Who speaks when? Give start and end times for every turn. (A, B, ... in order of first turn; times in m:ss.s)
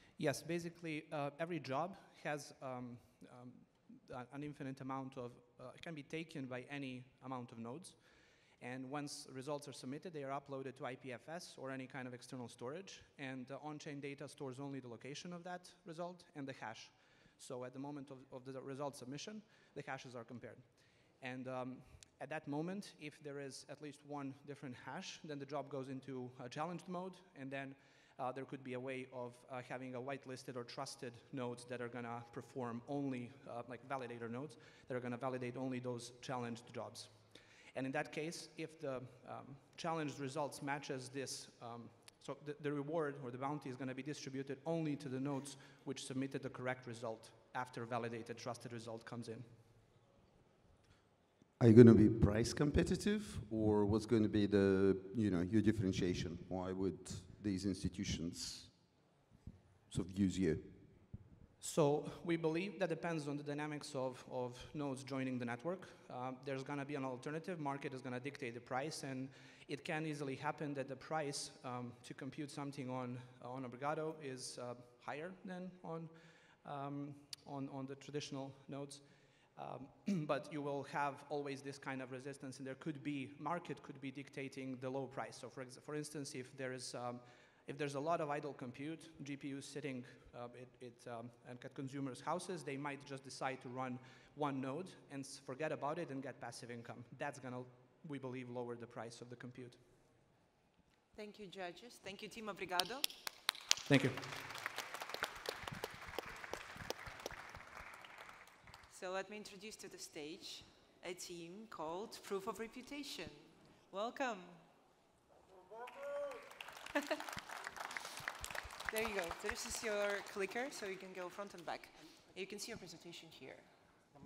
0:00.1-0:49.6 A
0:51.6-0:58.8 B
0:59.9-1:01.0 B
1:01.6-1:39.8 A
1:41.1-1:43.1 C
1:43.9-1:44.5 A
1:48.9-1:54.6 C
1:58.9-2:04.0 C